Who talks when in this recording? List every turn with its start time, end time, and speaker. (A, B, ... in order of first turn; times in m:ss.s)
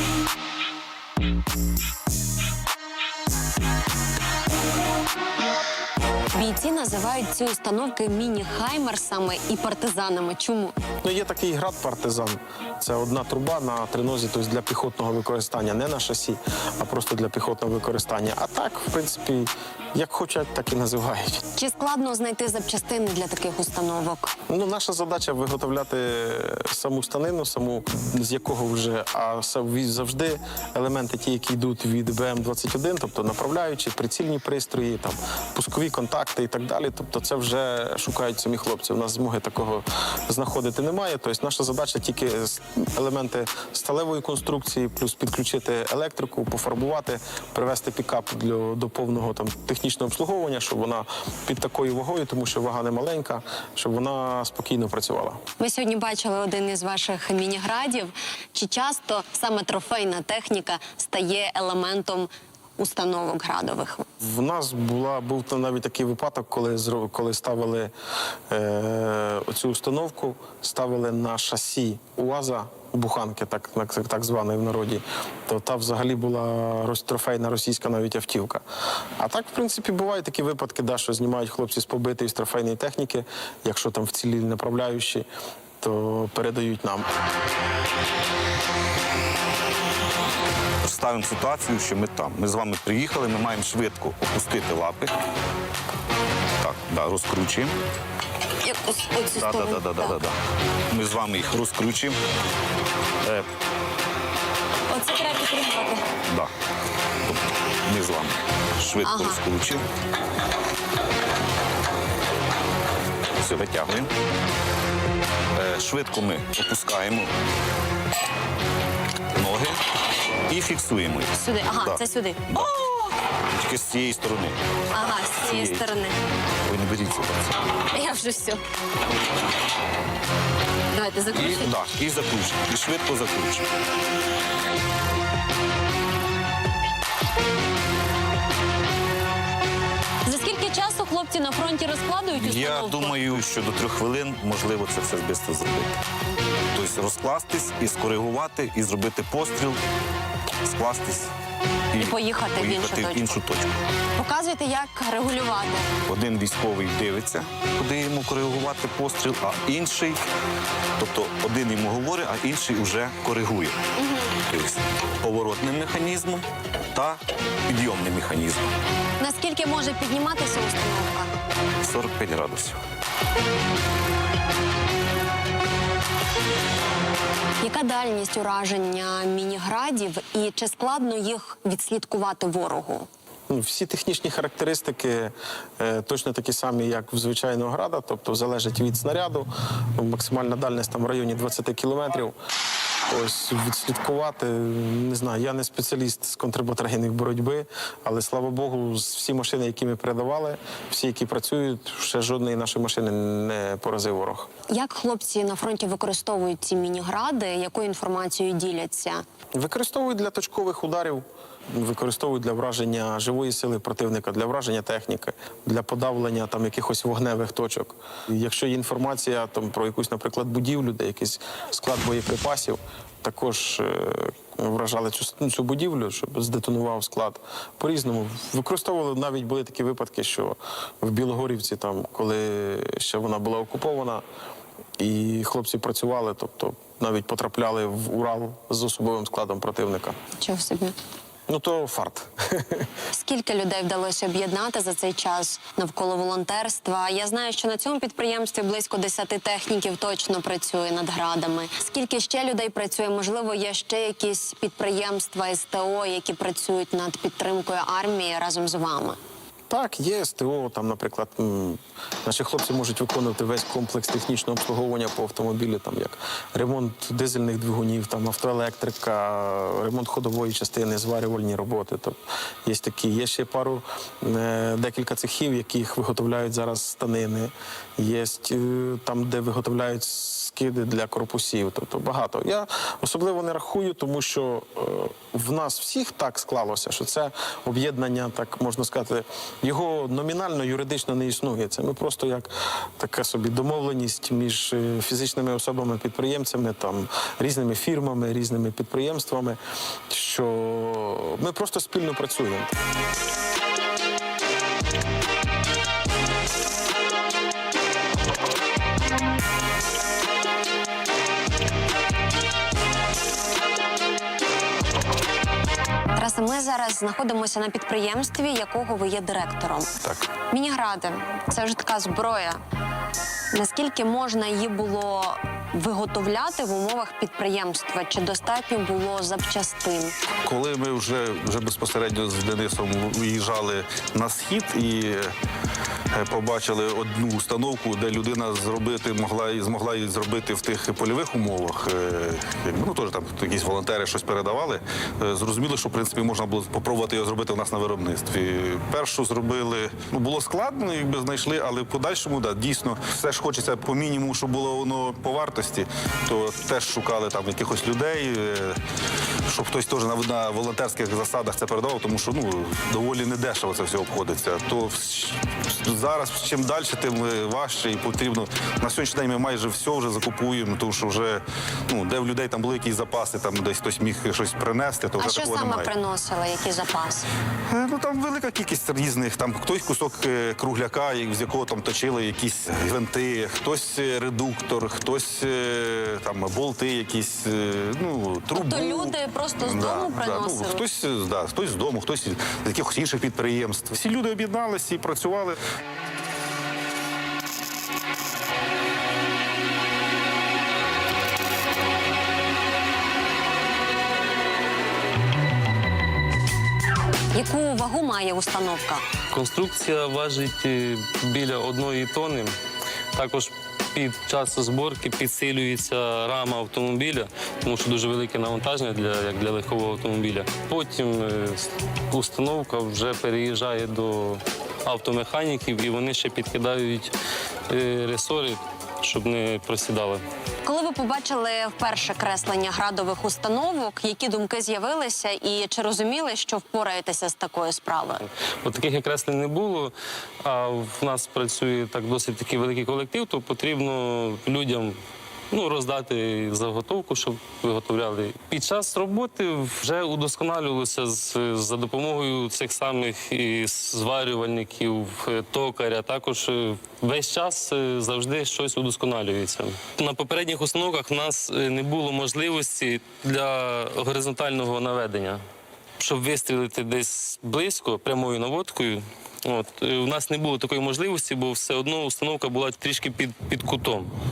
0:06.4-0:10.8 A
0:11.0-0:21.4 B
0:21.6-0:24.3 A
0:24.5-0:55.4 B
0:55.6-1:04.1 A
1:04.2-1:07.9 B
1:08.5-1:18.6 B
1:19.2-1:25.3 B
1:25.8-1:27.1 B
1:30.8-1:35.2 C
1:36.6-1:37.8 C
1:38.6-1:40.2 A
1:39.4-1:40.4 C
1:40.9-1:42.2 C
1:44.9-1:46.0 A
1:46.3-1:46.5 C
1:47.2-1:49.9 C
1:49.0-1:49.4 A
1:53.4-1:54.1 C
1:55.5-1:57.3 C
1:59.3-1:59.8 C
2:00.5-2:02.7 C
2:01.4-2:02.8 A
2:03.5-2:04.6 C
2:04.9-2:06.2 A
2:05.2-2:05.8 C
2:06.7-2:07.6 C
2:07.9-2:08.6 A
2:10.9-2:11.7 A
2:11.3-2:13.7 C
2:20.2-2:23.2 A
2:22.4-2:26.0 C
2:26.7-2:29.8 C
2:30.6-2:31.3 C
2:31.9-2:33.7 C
2:32.0-2:33.4 A
2:34.2-2:35.9 A
2:36.1-2:40.2 C
2:41.0-2:43.8 C
2:44.0-2:44.4 A
2:44.5-2:48.7 C
2:49.2-2:51.3 A
2:51.8-2:52.8 C
2:57.6-3:03.1 A
3:03.5-3:12.4 B
3:13.1-3:24.5 B
3:24.7-3:29.2 A
3:29.6-3:54.2 B
3:55.0-4:00.2 B
4:00.4-4:01.0 A
4:01.5-4:02.9 B
4:03.1-4:19.2 A
4:19.7-5:02.7 B
5:16.2-5:19.9 A
5:20.5-5:22.6 A
5:23.5-5:30.2 A
5:30.4-5:35.3 D
5:36.2-5:58.8 D
5:59.5-6:15.9 D
6:15.2-6:17.3 A
6:17.7-6:35.6 D
6:28.5-6:30.8 A
6:47.3-6:49.0 A
6:49.3-6:52.6 E
6:53.2-7:07.1 E
7:07.7-7:10.2 E
7:10.6-7:18.3 A
7:18.6-7:25.0 E
7:25.5-7:45.4 E
7:46.0-7:54.2 E